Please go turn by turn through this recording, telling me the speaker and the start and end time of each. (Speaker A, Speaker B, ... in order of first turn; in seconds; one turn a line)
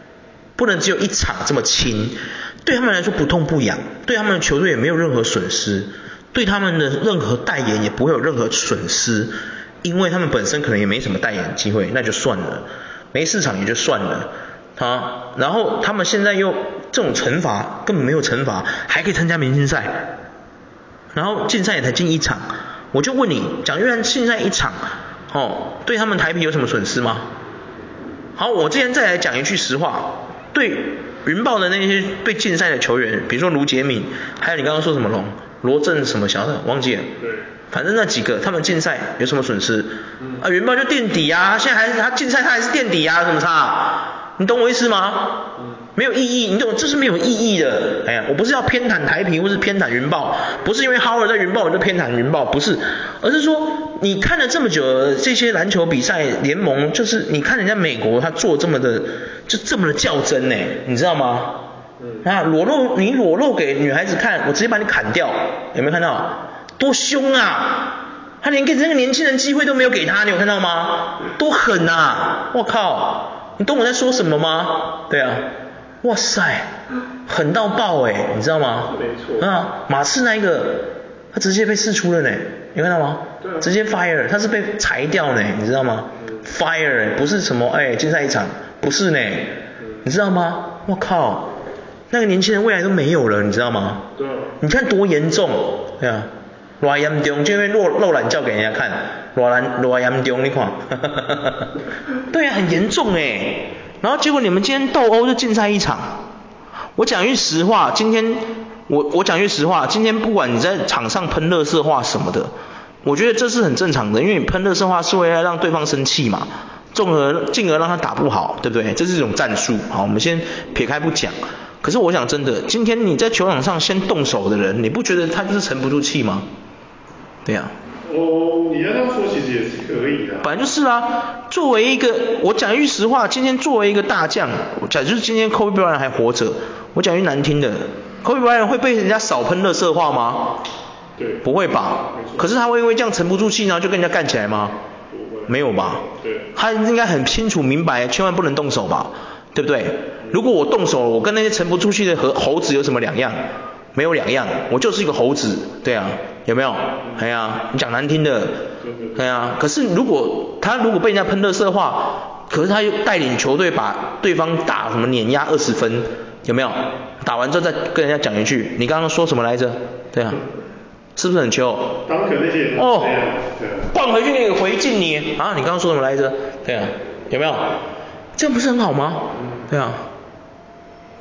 Speaker A: 0.6-20.1
Speaker A: 21.1-24.8
Speaker A: 25.3-27.3
Speaker A: 28.4-37.1
Speaker B: 37.2-37.5
Speaker A: 37.7-61.6
Speaker B: 62.0-62.3
Speaker A: 62.2-75.5
Speaker A: 76.0-76.7
Speaker A: 77.3-91.5
Speaker B: 78.9-79.5
Speaker B: 83.4-83.7
Speaker A: 92.1-94.1
Speaker B: 94.2-94.5
Speaker A: 94.6-101.8
Speaker A: 102.3-106.2
Speaker A: 107.0-112.5
Speaker A: 113.0-126.5
Speaker A: 127.5-127.7
Speaker B: 128.0-130.5
Speaker A: 130.4-140.6
Speaker B: 141.2-141.5
Speaker A: 141.4-144.8
Speaker B: 142.1-142.6
Speaker B: 145.1-146.5
Speaker A: 145.5-146.0
Speaker A: 146.6-153.4
Speaker A: 153.9-170.4
Speaker B: 158.8-159.2
Speaker A: 171.2-172.0
Speaker B: 172.1-173.9
Speaker A: 172.8-173.2
Speaker A: 173.9-177.8
Speaker A: 178.4-180.1
Speaker B: 179.4-179.7